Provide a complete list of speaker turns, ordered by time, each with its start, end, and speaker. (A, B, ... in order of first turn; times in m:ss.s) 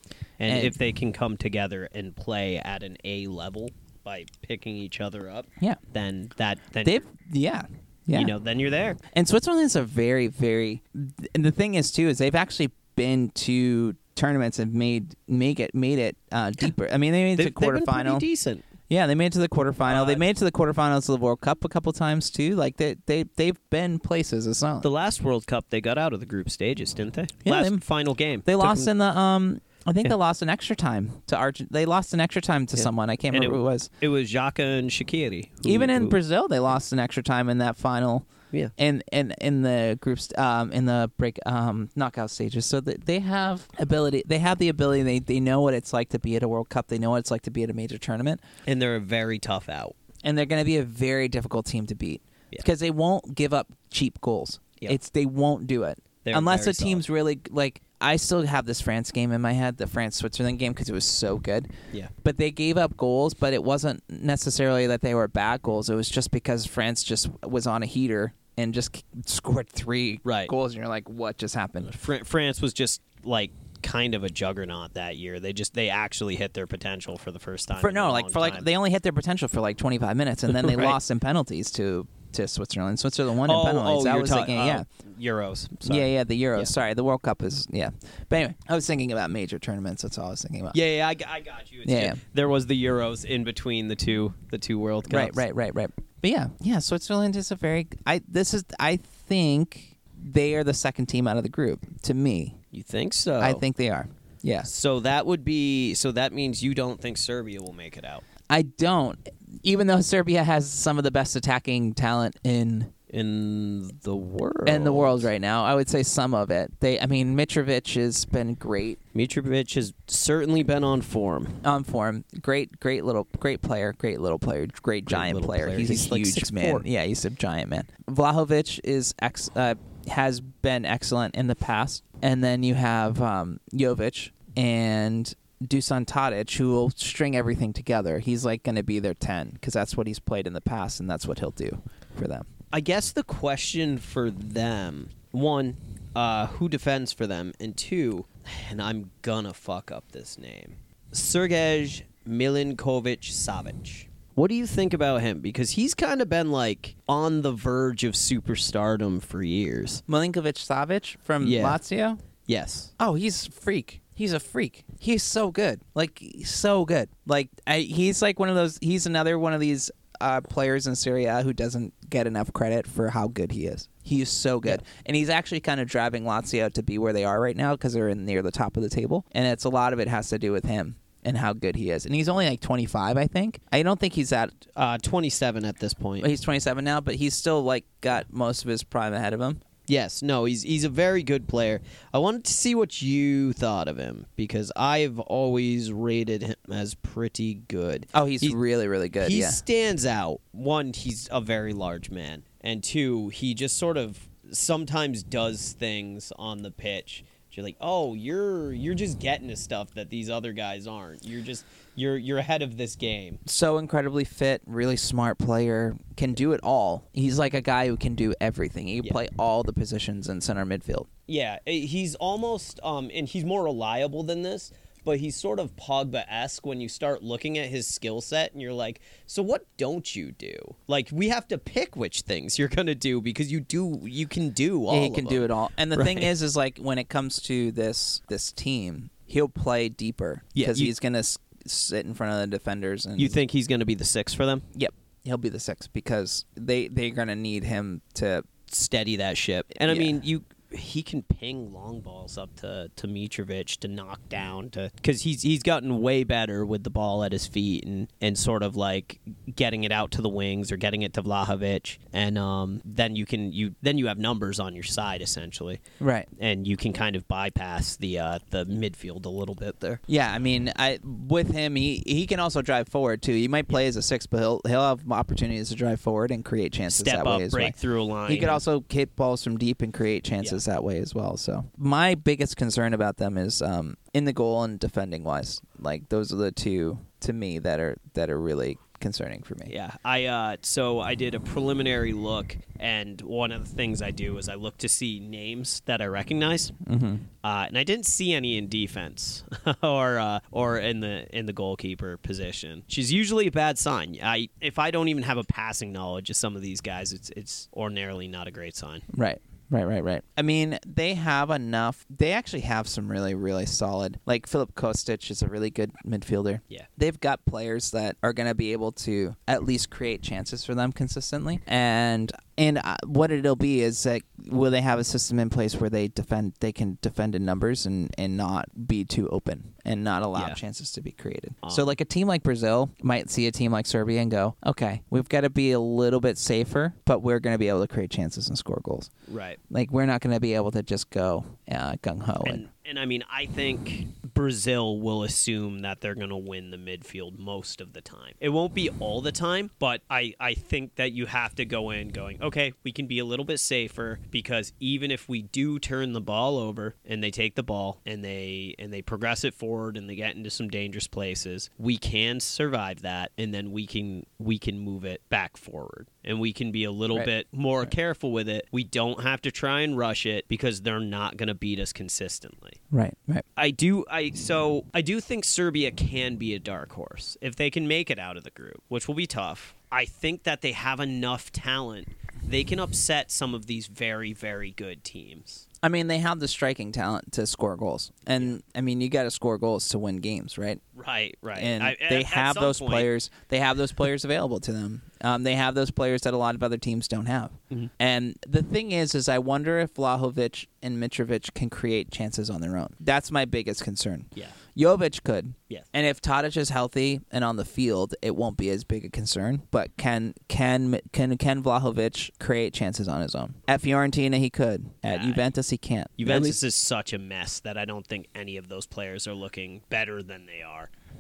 0:00.4-0:07.0 A
0:00.5-0:00.8 B
0:06.8-0:08.3 B
0:08.1-0:09.0 A
0:09.1-0:18.2 B
0:17.4-0:18.6 A
0:18.9-0:24.9 B
0:19.9-0:20.2 A
0:24.8-0:28.9 A
0:27.4-0:27.8 B
0:28.4-0:33.9 B
0:32.8-0:36.2 A
0:35.6-0:48.4 B
0:48.7-0:50.0 A
0:50.2-1:01.7 B
0:56.2-0:57.0 A
1:02.2-1:11.9 B
1:10.2-1:10.5 A
1:11.8-1:18.7 A
1:17.8-1:24.8 B
1:20.5-1:21.0 A
1:23.4-1:26.7 A
1:25.8-1:30.8 B
1:30.7-1:35.4 A
1:31.9-1:32.2 B
1:35.1-1:42.6 B
1:42.7-1:43.6 A
1:43.4-1:44.7 B
1:44.6-1:48.2 A
1:48.5-1:52.9 B
1:53.1-1:55.3 A
1:54.7-1:59.0 B
1:59.1-2:01.6 A
2:01.6-2:22.5 B
2:05.1-2:06.9 A
2:22.7-2:40.0 A
2:40.1-2:42.2 B
2:41.4-2:41.8 A
2:42.5-2:42.9 A
2:43.0-3:04.6 B
3:04.8-3:06.3 A
3:06.2-3:09.6 B
3:09.9-3:18.6 A
3:18.1-3:19.6 B
3:19.2-3:33.4 A
3:33.4-3:41.1 B
3:41.3-3:56.3 A
3:54.9-4:03.4 B
4:00.6-4:00.9 A
4:03.2-4:04.6 A
4:04.7-4:08.5 B
4:08.7-4:25.8 A
4:09.8-4:10.2 B
4:26.0-4:26.3 B
4:26.4-4:30.0 A
4:30.1-4:37.8 B
4:36.9-4:38.6 A
4:38.3-4:49.7 B
4:49.7-4:56.8 A
4:56.8-4:57.2 B
4:57.4-5:09.1 A
5:09.1-5:39.1 B
5:31.6-5:31.9 A
5:39.3-5:39.6 A
5:39.7-5:42.6 B
5:42.4-6:12.8 A
6:12.9-6:13.4 B
6:13.6-6:25.7 A
6:25.8-6:30.8 B
6:31.0-6:33.1 A
6:31.6-6:56.6 B
6:55.1-6:55.4 A
6:56.2-7:00.9 A